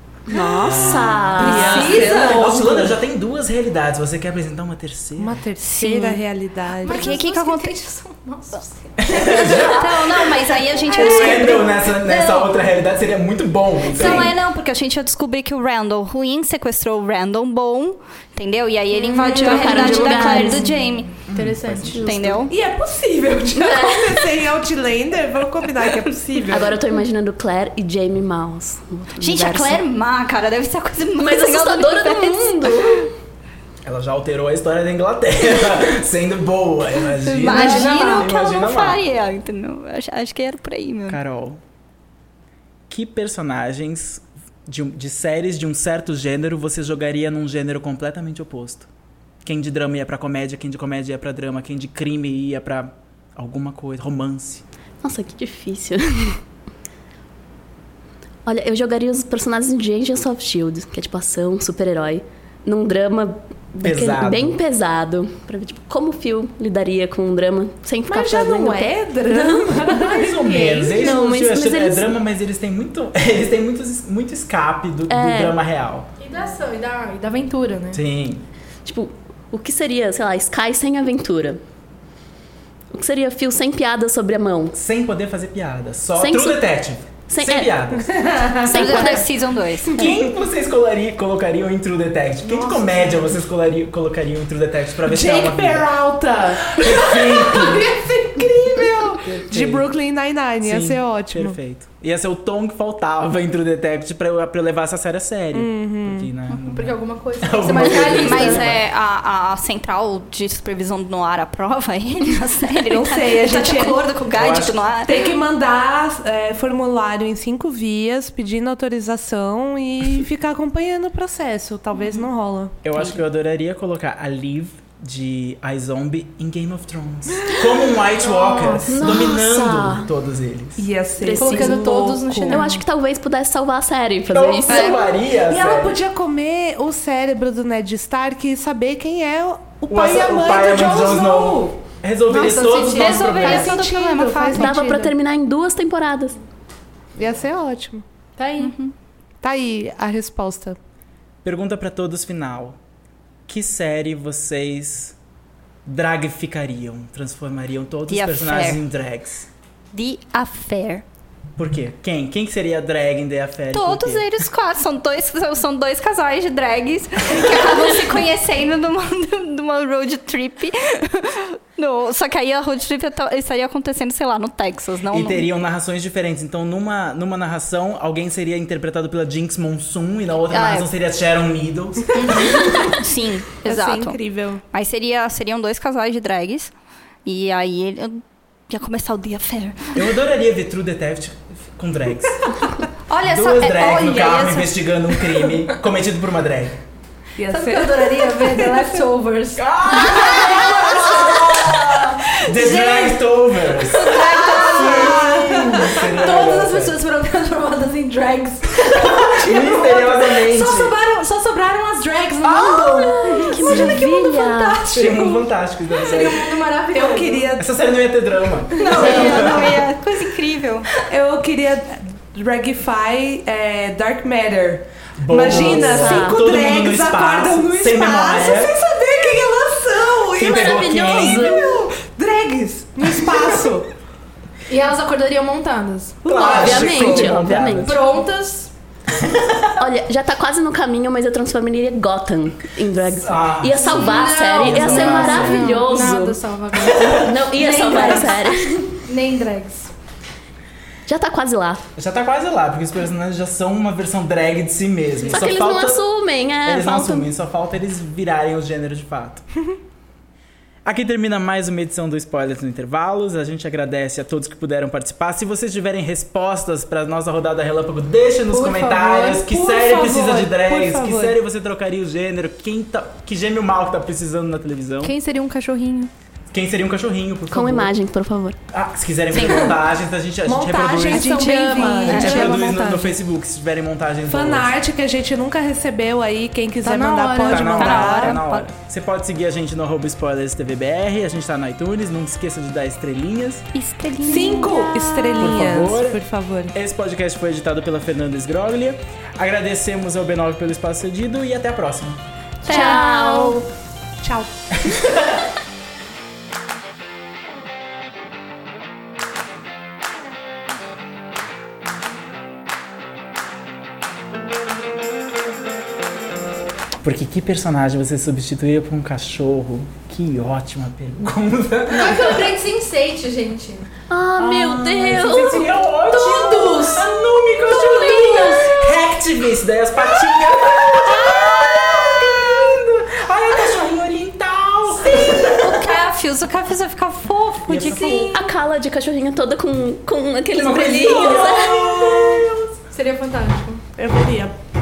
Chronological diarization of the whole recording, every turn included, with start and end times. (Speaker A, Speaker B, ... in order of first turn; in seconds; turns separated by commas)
Speaker A: 0.3-2.0, Speaker B: 0.4-5.4, Speaker C: 0.6-3.0, Speaker D: 1.4-2.4, Speaker E: 1.8-2.4, Speaker C: 5.2-7.2, Speaker E: 5.6-6.2, Speaker D: 6.8-9.9, Speaker E: 6.8-7.8, Speaker B: 9.0-9.8, Speaker E: 9.2-12.7, Speaker D: 10.5-11.6, Speaker B: 11.0-14.3, Speaker E: 13.9-21.1, Speaker A: 19.2-20.7, Speaker C: 19.2-19.6, Speaker D: 19.7-20.1, Speaker B: 21.3-22.0, Speaker D: 21.3-22.2, Speaker A: 21.8-22.4, Speaker E: 22.0-22.5, Speaker C: 22.5-26.8, Speaker A: 23.6-24.2, Speaker A: 26.5-29.8, Speaker E: 29.2-32.8, Speaker A: 31.1-33.1, Speaker B: 33.8-39.0, Speaker E: 37.2-41.2, Speaker D: 37.5-38.3, Speaker B: 41.1-41.6, Speaker B: 42.9-48.9, Speaker B: 49.4-54.6, Speaker A: 55.0-56.4, Speaker A: 58.5-69.8, Speaker B: 63.8-64.6, Speaker C: 68.1-71.2, Speaker B: 69.9-76.1, Speaker A: 71.0-72.1, Speaker A: 75.1-75.6, Speaker D: 76.2-78.0, Speaker B: 77.9-78.5, Speaker A: 78.8-81.6, Speaker A: 82.9-84.8, Speaker B: 84.8-88.1, Speaker A: 86.2-86.7, Speaker A: 87.3-89.3, Speaker C: 88.3-88.9, Speaker E: 88.6-90.1, Speaker B: 89.9-95.9, Speaker D: 92.5-93.3, Speaker C: 95.0-101.6, Speaker B: 96.7-97.9, Speaker B: 99.0-99.9, Speaker B: 100.6-108.8, Speaker C: 105.5-106.3, Speaker D: 106.7-108.7, Speaker E: 107.8-115.1, Speaker C: 112.8-114.1, Speaker B: 114.3-114.9, Speaker C: 115.0-122.7, Speaker B: 122.8-130.8, Speaker D: 128.3-128.8, Speaker A: 128.9-130.1, Speaker C: 130.8-132.6, Speaker A: 131.2-131.9, Speaker D: 131.3-132.8, Speaker A: 132.5-134.9, Speaker B: 134.3-136.0, Speaker C: 134.7-141.8, Speaker B: 139.9-143.7, Speaker D: 142.3-143.4, Speaker E: 142.8-144.8, Speaker C: 143.2-145.1, Speaker A: 144.5-146.4, Speaker C: 147.2-148.1, Speaker D: 148.4-148.7, Speaker E: 148.6-148.9, Speaker C: 149.4-150.8, Speaker B: 151.4-152.8, Speaker B: 153.5-155.2, Speaker B: 155.8-159.5, Speaker E: 158.1-158.8, Speaker E: 159.9-161.0, Speaker B: 161.6-164.3, Speaker E: 163.7-175.5, Speaker B: 175.1-182.9, Speaker E: 180.5-180.9, Speaker E: 182.1-184.2, Speaker C: 183.7-184.6, Speaker E: 184.7-186.7, Speaker E: 187.2-189.8, Speaker B: 189.9-192.5, Speaker E: 193.1-195.2, Speaker B: 193.2-196.8, Speaker C: 197.4-199.1, Speaker D: 197.4-200.8, Speaker B: 199.6-207.0, Speaker E: 202.5-203.1, Speaker E: 203.8-205.2, Speaker C: 204.6-206.4, Speaker D: 206.1-217.5, Speaker B: 208.8-210.9, Speaker B: 212.4-214.1, Speaker A: 213.1-214.8, Speaker B: 214.9-216.4, Speaker C: 216.9-217.7, Speaker B: 217.6-219.8, Speaker E: 218.8-220.9, Speaker C: 221.1-233.9, Speaker B: 225.2-228.7, Speaker A: 225.4-226.4, Speaker B: 230.4-231.6, Speaker A: 230.4-231.8, Speaker D: 234.7-236.2, Speaker C: 236.2-237.3, Speaker B: 236.2-238.0, Speaker A: 236.4-238.0, Speaker D: 237.2-238.7, Speaker B: 239.2-239.7, Speaker A: 239.8-246.4, Speaker B: 243.2-245.7, Speaker D: 243.9-249.9, Speaker A: 247.1-248.9, Speaker A: 251.1-251.8, Speaker B: 252.0-256.1, Speaker A: 255.2-257.3, Speaker B: 256.6-259.4, Speaker B: 260.9-275.2, Speaker D: 268.5-269.4, Speaker C: 269.4-271.4, Speaker D: 275.0-276.1, Speaker B: 276.5-277.9, Speaker A: 277.5-278.6, Speaker B: 278.7-281.3, Speaker E: 279.3-279.7, Speaker C: 280.4-283.0, Speaker D: 281.1-283.1, Speaker E: 281.8-282.5, Speaker B: 282.0-284.7, Speaker C: 284.3-288.4, Speaker D: 286.8-287.7, Speaker B: 287.4-293.7, Speaker E: 287.6-288.7, Speaker E: 293.7-295.4, Speaker C: 294.3-296.7, Speaker B: 295.4-296.2, Speaker B: 296.7-302.2, Speaker E: 302.6-303.6, Speaker C: 302.6-303.0, Speaker A: 302.7-303.7, Speaker C: 304.2-304.5, Speaker B: 304.8-305.4, Speaker B: 317.0-322.5, Speaker D: 322.0-323.9, Speaker A: 324.1-325.7, Speaker C: 324.4-326.7, Speaker B: 325.1-335.8, Speaker D: 326.1-328.9, Speaker A: 327.8-328.4, Speaker C: 328.3-328.8, Speaker C: 330.0-330.7, Speaker E: 335.4-338.4, Speaker B: 337.7-338.3, Speaker A: 337.9-341.9, Speaker B: 340.5-342.8, Speaker D: 342.9-343.8, Speaker C: 344.0-344.6